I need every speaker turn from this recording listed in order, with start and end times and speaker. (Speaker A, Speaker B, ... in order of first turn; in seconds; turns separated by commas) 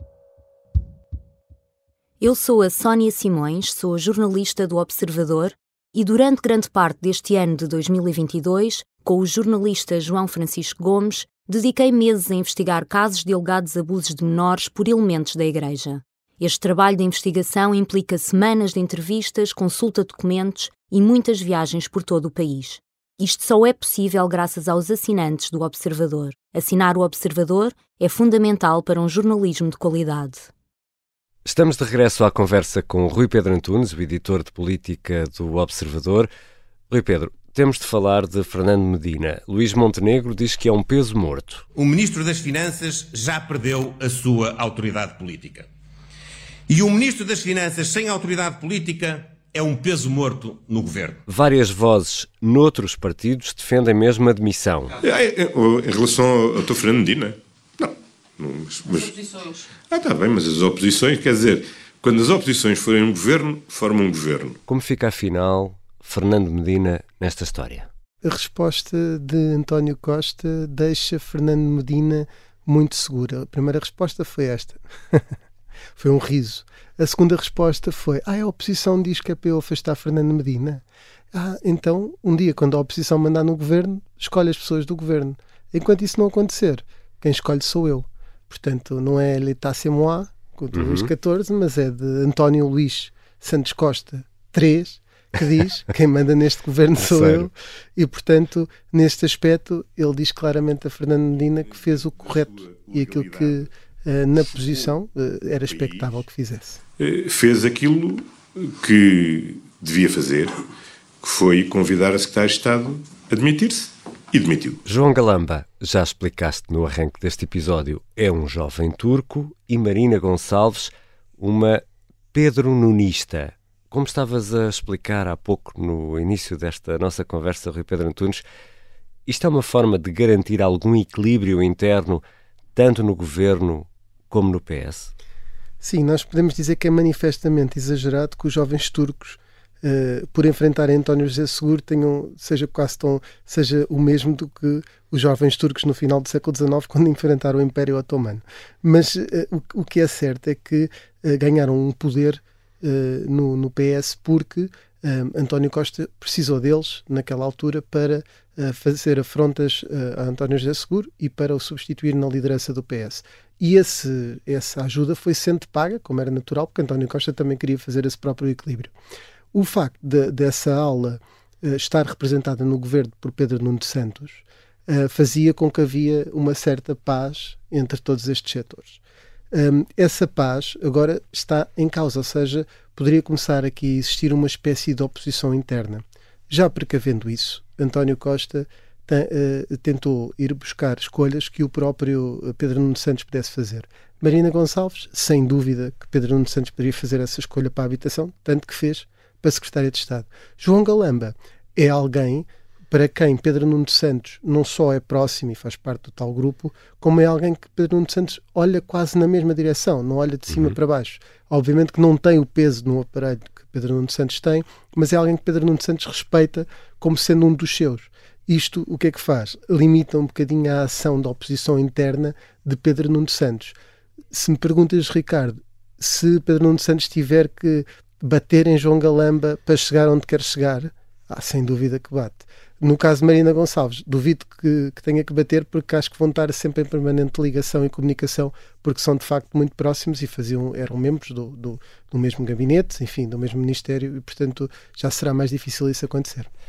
Speaker A: 2.2-30.5, Speaker B: 31.4-36.3, Speaker B: 36.9-41.6, Speaker C: 41.7-45.7, Speaker C: 46.7-51.2, Speaker B: 51.3-55.0, Speaker D: 55.0-64.6, Speaker B: 64.7-67.9, Speaker E: 68.2-75.2, Speaker E: 76.0-106.8, Speaker B: 90.7-91.1, Speaker B: 97.0-97.5, Speaker D: 101.7-103.6, Speaker D: 105.7-106.2, Speaker D: 107.0-110.6, Speaker D: 111.2-114.8, Speaker B: 114.8-128.4, Speaker B: 129.3-132.2, Speaker B: 132.8-135.1, Speaker E: 135.8-168.9, Speaker E: 169.5-179.0, Speaker E: 179.5-223.8, Speaker E: 224.3-246.5